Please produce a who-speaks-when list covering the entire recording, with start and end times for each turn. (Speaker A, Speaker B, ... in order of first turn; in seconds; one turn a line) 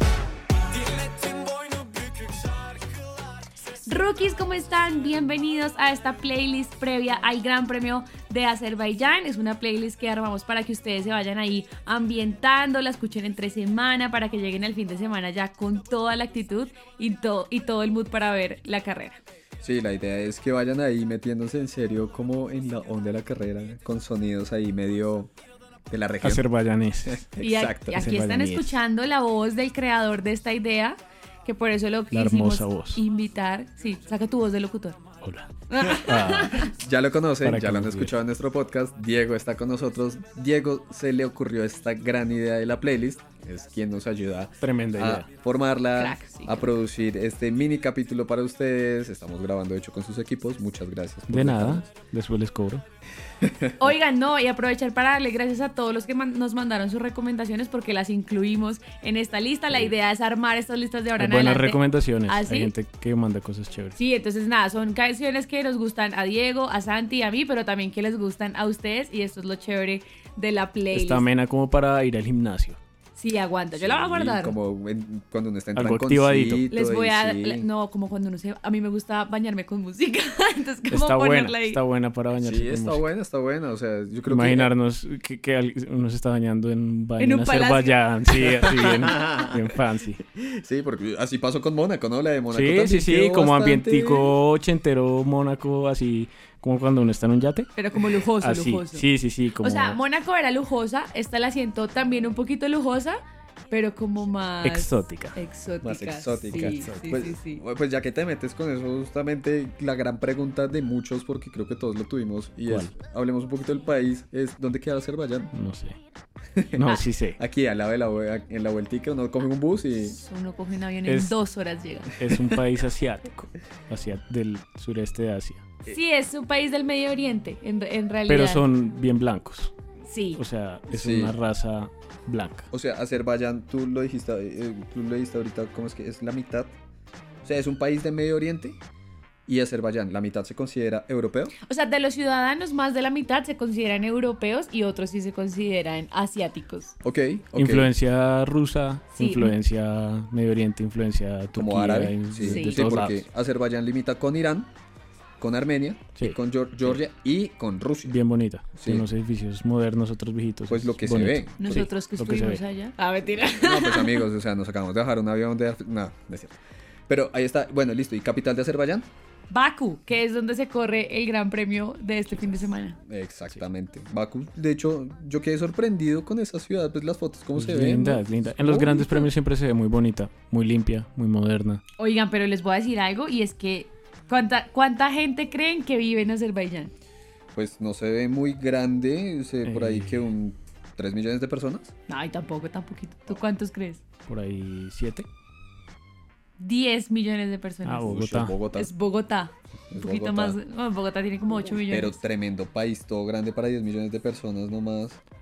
Speaker A: 0.6-3.4
Speaker B: 3.9-19.2
Speaker C: 19.6-25.3
Speaker C: 25.9-26.4
Speaker A: 26.2-27.3
Speaker C: 27.1-28.0
Speaker B: 27.4-35.0
Speaker A: 27.9-28.8
Speaker A: 32.1-33.0
Speaker A: 35.2-36.7
Speaker B: 35.7-36.7
Speaker C: 36.6-51.9
Speaker A: 37.4-38.1
Speaker A: 44.6-45.3
Speaker B: 46.0-46.7
Speaker A: 51.3-52.8
Speaker C: 53.4-53.9
Speaker B: 53.8-62.7
Speaker A: 61.2-64.0
Speaker B: 64.0-71.3
Speaker A: 70.9-72.8
Speaker B: 73.2-74.6
Speaker C: 73.8-77.7
Speaker A: 75.8-76.7
Speaker B: 76.7-81.8
Speaker A: 80.9-83.0
Speaker C: 82.4-84.7
Speaker A: 84.3-90.2
Speaker B: 87.2-88.7
Speaker C: 88.3-89.7
Speaker C: 90.3-94.3
Speaker A: 92.5-97.7
Speaker B: 97.8-99.1
Speaker A: 98.3-100.0
Speaker B: 99.6-107.6
Speaker A: 104.6-105.4
Speaker C: 105.8-115.5
Speaker A: 112.7-112.9
Speaker A: 115.5-116.0
Speaker C: 116.6-120.2
Speaker A: 116.8-117.4
Speaker B: 120.0-122.1
Speaker A: 121.1-121.3
Speaker A: 122.2-125.6
Speaker C: 122.2-122.6
Speaker B: 125.9-128.7
Speaker A: 128.3-129.7
Speaker B: 130.0-130.4
Speaker A: 130.4-132.7
Speaker C: 130.9-131.4
Speaker C: 132.7-136.8
Speaker C: 137.4-138.8
Speaker C: 139.5-141.5
Speaker B: 141.7-146.9
Speaker C: 147.0-147.9
Speaker A: 147.5-153.3
Speaker B: 149.1-149.5
Speaker C: 151.5-154.7
Speaker B: 152.4-152.9
Speaker C: 155.4-158.2
Speaker A: 156.2-157.0
Speaker A: 158.1-162.6
Speaker C: 158.8-159.1
Speaker C: 160.7-161.9
Speaker B: 161.6-164.2
Speaker C: 163.5-166.6
Speaker C: 167.1-169.1
Speaker B: 169.5-173.0
Speaker C: 173.1-179.3
Speaker A: 177.6-181.8
Speaker B: 182.0-186.9
Speaker C: 187.6-191.9
Speaker A: 189.6-190.3
Speaker B: 192.1-194.0
Speaker A: 194.3-195.3
Speaker B: 196.6-198.1
Speaker A: 197.8-198.6
Speaker C: 198.1-198.9
Speaker B: 198.7-202.2
Speaker C: 199.9-200.6
Speaker C: 201.9-205.2